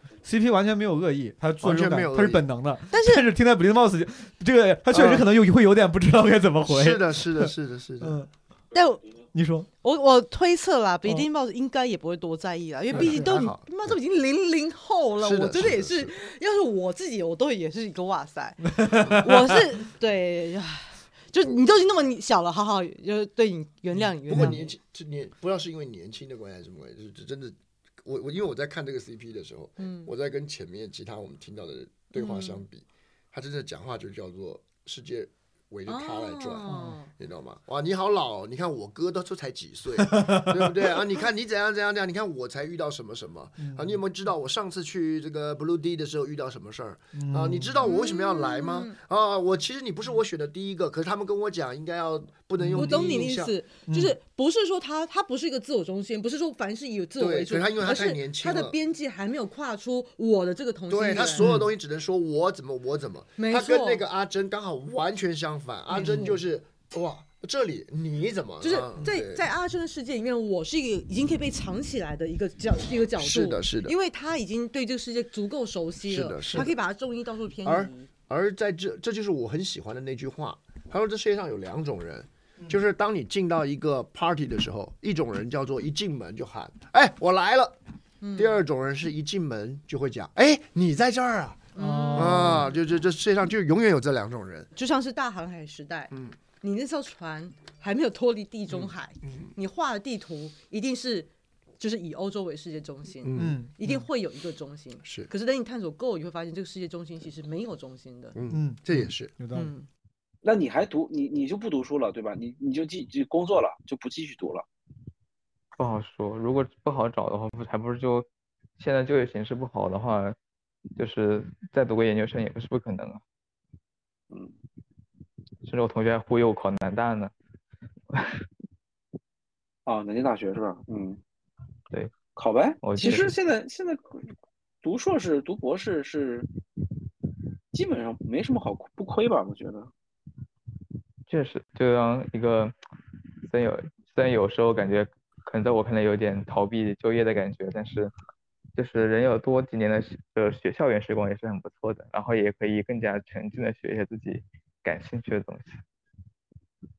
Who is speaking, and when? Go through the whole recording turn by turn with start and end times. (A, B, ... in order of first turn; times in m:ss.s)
0:00.2-0:08.3 A
0:01.6-0:02.4 B
0:02.9-0:03.3 C
0:04.9-0:05.3 B
0:06.6-0:08.2 B
0:08.7-0:09.1 C
0:09.3-0:09.7 A
0:09.8-0:24.7 C
0:12.9-0:14.0 B
0:12.9-0:13.3 A
0:15.2-0:16.1 B
0:18.6-0:19.6 A
0:24.0-0:24.6 A
0:24.3-0:53.6 B
0:29.8-0:30.1 C
0:32.1-0:32.6 C
0:35.9-0:37.1 C
0:36.7-0:37.0 A
0:40.0-0:40.7 A
0:43.6-0:44.0 A
0:47.1-0:47.9 A
0:47.8-0:49.0 C
0:52.6-0:53.2 A
0:52.7-1:01.6 C
0:53.9-0:54.2 A
0:57.2-0:58.8 B
1:00.9-1:09.4 B
1:03.4-1:04.0 C
1:05.9-1:06.4 C
1:08.6-1:18.1 C
1:13.2-1:13.9 B
1:16.1-1:16.7 B
1:17.6-1:27.8 B
1:28.2-1:28.6 C
1:28.4-1:34.7 B
1:31.8-1:32.8 C
1:31.8-1:32.6 A
1:34.8-1:48.4 C
1:38.7-1:39.5 B
1:43.2-1:43.6 B
1:43.4-1:44.0 A
1:45.0-1:45.3 B
1:48.4-1:49.3 B
1:48.5-1:49.7 A
1:49.5-1:49.9 C
1:50.4-1:54.6 D
1:55.8-1:58.3 E
1:58.8-2:00.4 E
2:01.0-2:03.2 E
2:05.6-2:07.3 E
2:09.9-2:11.2 D
2:12.3-2:14.3 D
2:12.8-2:13.3 E
2:14.8-2:16.5 D
2:17.7-2:19.9 D
2:21.3-2:22.7 E
2:23.5-2:28.1 E
2:28.8-2:35.8 E